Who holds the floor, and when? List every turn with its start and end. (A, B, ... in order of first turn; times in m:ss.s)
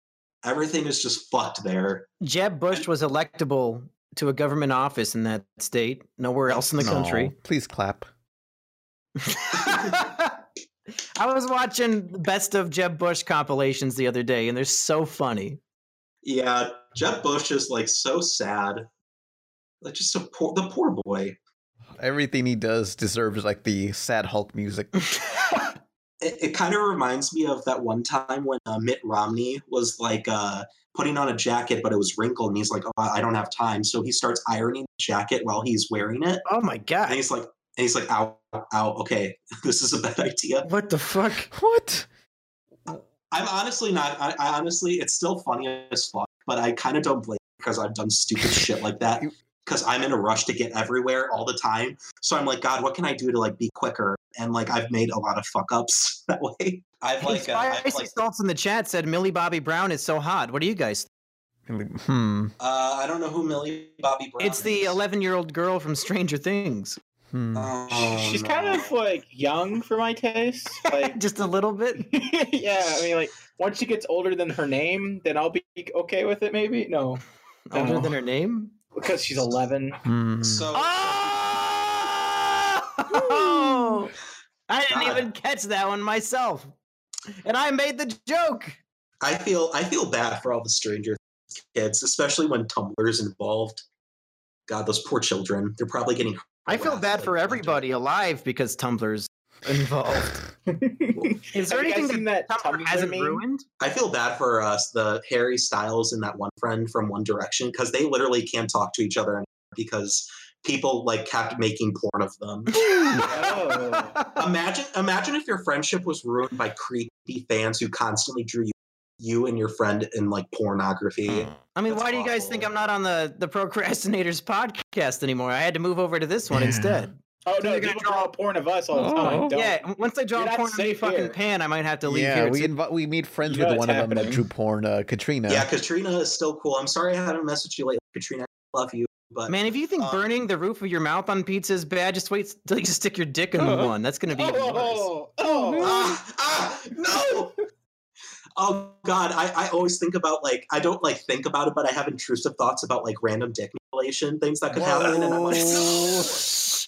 0:00.4-0:02.1 A
0:02.2-0:07.3 B
0:06.8-0:08.1 C
0:09.2-0:10.4 B
0:09.6-0:10.0 A
0:11.2-0:15.6 B
0:16.2-0:18.9 A
0:19.8-0:21.4 A
0:22.0-0:24.9 C
0:26.2-0:36.4 A
0:36.4-0:37.2 B
0:37.1-0:40.6 A
0:40.6-0:41.5 B
0:41.5-0:42.1 C
0:43.3-0:58.1 A
0:48.4-0:48.6 C
0:57.2-1:01.1 B
1:01.7-1:02.5 C
1:02.6-1:05.0 A
1:04.4-1:07.0 B
1:07.3-1:07.7 C
1:07.5-1:08.9 A
1:07.9-1:11.2 D
1:10.8-1:12.1 B
1:12.0-1:17.2 D
1:17.7-1:18.7 B
1:17.7-1:18.2 D
1:18.9-1:20.0 D
1:20.0-1:20.7 C
1:20.4-1:21.5 A
1:20.7-1:24.1 B
1:23.4-1:24.0 D
1:24.7-1:26.7 B
1:24.9-1:25.2 A
1:27.4-1:28.8 B
1:29.2-1:33.8 A
1:34.7-1:37.8 A
1:36.7-1:40.4 B
1:40.7-1:43.4 D
1:41.5-1:43.6 B
1:43.8-1:52.8 A
1:52.7-1:54.4 B
1:53.2-1:54.2 D
1:54.4-2:02.7 A
2:01.3-2:01.6 C
2:01.7-2:08.3 B
2:06.5-2:07.0 C
2:07.4-2:09.8 D
2:08.9-2:09.6 C
2:09.2-2:12.7 B
2:10.3-2:11.4 D
2:12.0-2:15.7 C
2:13.5-2:14.4 D
2:15.5-2:20.2 A
2:19.5-2:25.1 B
2:23.6-2:23.9 C
2:24.3-2:26.0 D
2:25.4-2:26.1 C
2:25.8-2:27.5 A
2:27.1-2:27.5 D
2:28.6-2:36.4 A
2:34.7-2:36.5 C